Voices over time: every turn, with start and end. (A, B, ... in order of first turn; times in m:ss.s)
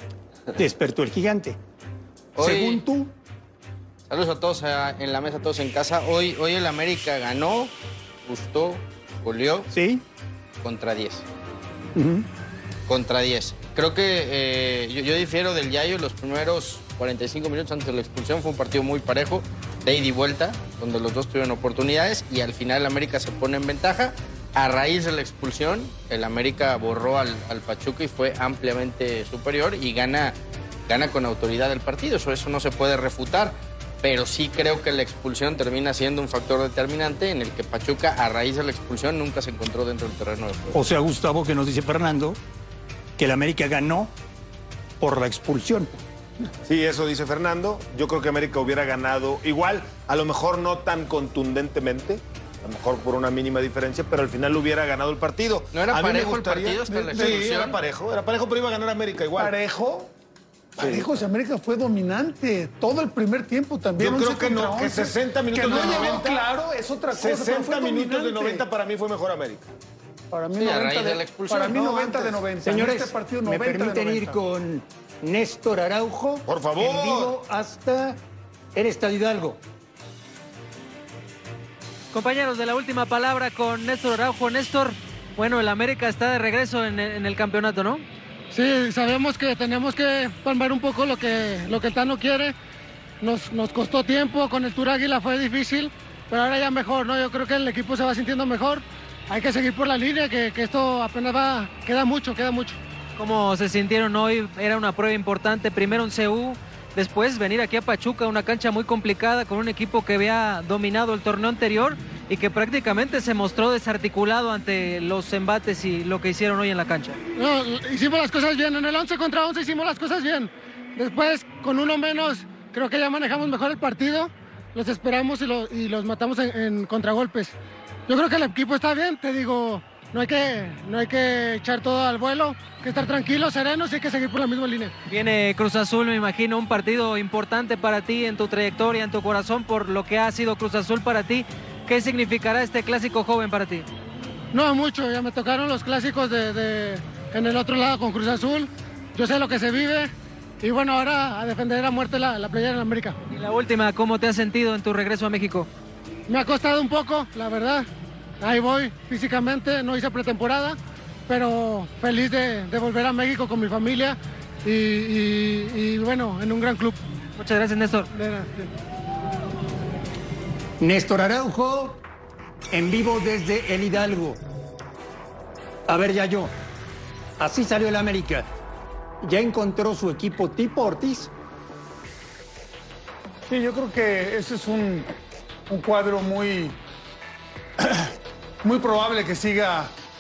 0:00.6-0:01.6 A
0:02.4-0:02.8 B
0:02.4-0:03.1 A
0:04.1-0:07.7 B
0:08.3-0:09.7 B
0:09.7-0:10.0 A
0:10.6-0:11.3 B
0:12.0-0:12.3 A
0:12.9-0:40.7 B
0:40.7-0:42.4 A
0:43.2-0:44.1 A
0:45.0-0:46.0 A
0:46.6-0:59.5 C
0:55.7-0:57.8 B
0:59.4-1:00.1 D
1:00.8-1:08.6 D
1:00.8-1:01.2 C
1:04.0-1:06.4 C
1:07.1-1:09.7 C
1:10.3-1:14.4 D
1:10.6-1:12.1 B
1:11.8-1:12.4 C
1:12.6-1:18.2 A
1:16.5-1:17.3 C
1:18.8-1:19.6 A
1:22.1-1:28.0 E
1:28.5-1:32.6 F
1:33.2-1:42.8 F
1:43.2-1:57.2 E
1:57.4-2:07.6 F
2:08.1-2:15.0 F
2:15.1-2:23.9 E
2:24.5-2:33.2 F
2:33.3-2:35.7 E
2:36.3-2:37.9 F
2:38.4-2:47.0 F
2:47.4-2:48.1 E
2:48.1-2:48.7 F
2:50.8-2:52.0 A
2:52.7-2:54.4 A
2:55.9-2:56.5 A
2:57.4-2:58.5 A
2:59.2-3:01.3 A
3:03.5-3:05.1 D
3:05.7-3:06.8 D
3:07.8-3:10.0 D